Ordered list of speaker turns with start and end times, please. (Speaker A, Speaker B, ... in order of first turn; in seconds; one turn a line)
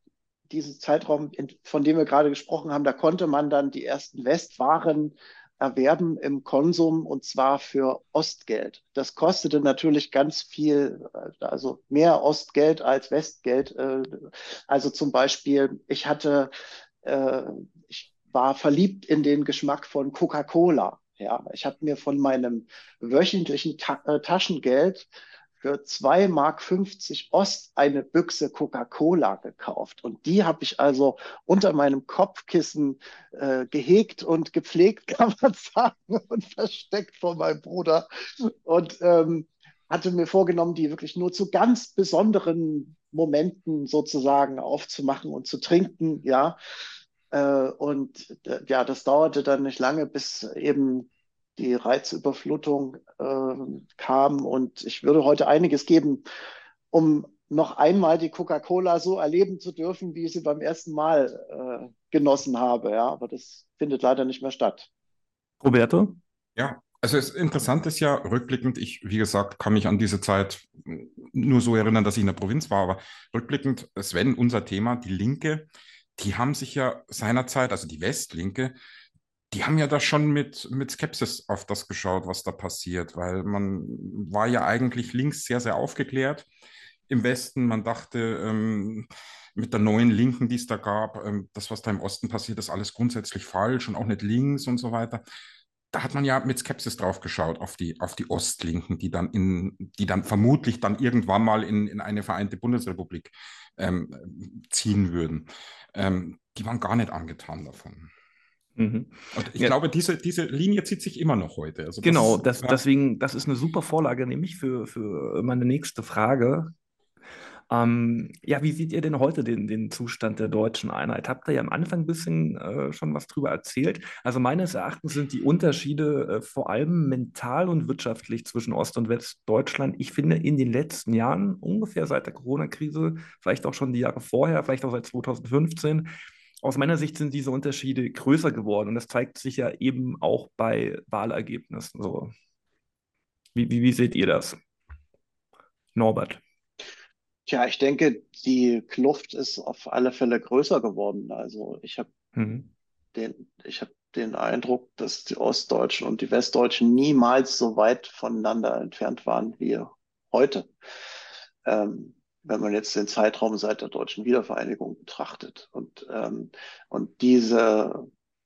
Speaker A: 0.5-46.6
Speaker A: 47.3-56.2
Speaker A: 56.9-64.9
Speaker B: 65.6-66.2
Speaker C: 66.5-78.7
Speaker C: 79.5-86.5
Speaker C: 87.1-95.2
Speaker C: 95.9-108.1
Speaker B: 108.8-109.7
Speaker C: 109.3-112.8
Speaker B: 112.0-116.7
Speaker B: 117.7-136.1
Speaker B: 136.6-142.3
Speaker B: 143.5-144.6
Speaker B: 145.9-146.4
Speaker A: 147.5-152.1
Speaker B: 152.3-152.7
Speaker A: 153.1-160.7
Speaker A: 161.6-168.1